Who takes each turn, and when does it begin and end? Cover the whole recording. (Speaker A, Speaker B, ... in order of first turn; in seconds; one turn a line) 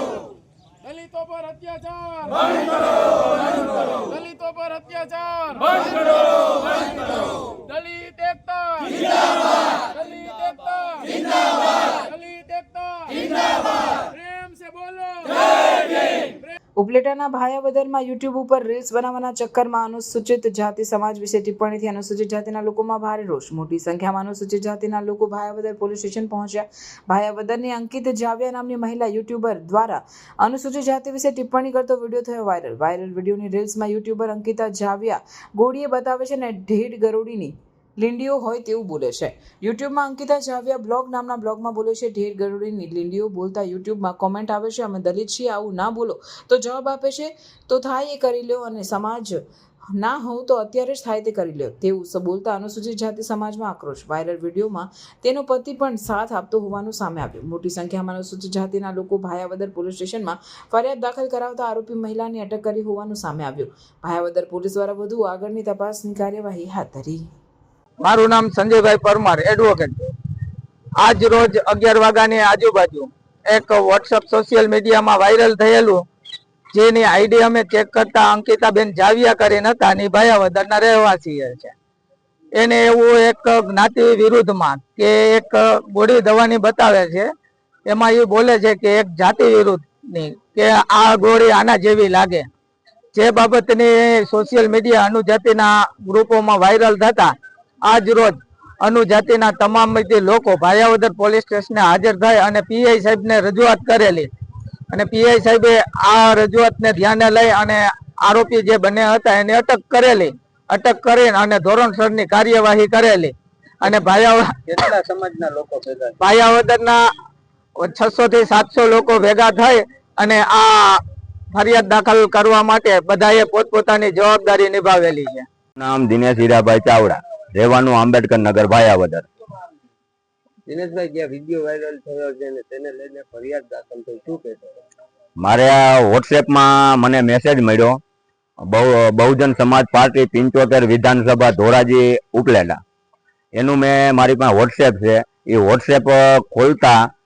Speaker A: 0.8-2.6
Speaker A: 3.6-6.3
Speaker A: 7.7-9.3
Speaker A: 9.9-13.4
Speaker A: 14.2-15.4
Speaker B: 16.8-49.4
Speaker B: 49.9-67.3
Speaker C: 68.0-70.1
Speaker C: 71.0-76.0
Speaker C: 76.7-81.7
Speaker C: 82.5-87.3
Speaker C: 87.9-92.5
Speaker C: 93.1-97.3
Speaker C: 97.9-104.3
Speaker C: 104.9-114.6
Speaker D: 114.7-116.2
Speaker C: 116.2-117.0
Speaker C: 117.8-121.0
Speaker C: 121.5-125.5
Speaker E: 125.8-129.3
Speaker D: 130.7-134.8
Speaker E: 135.4-138.0
Speaker E: 138.7-142.8
Speaker E: 143.6-147.0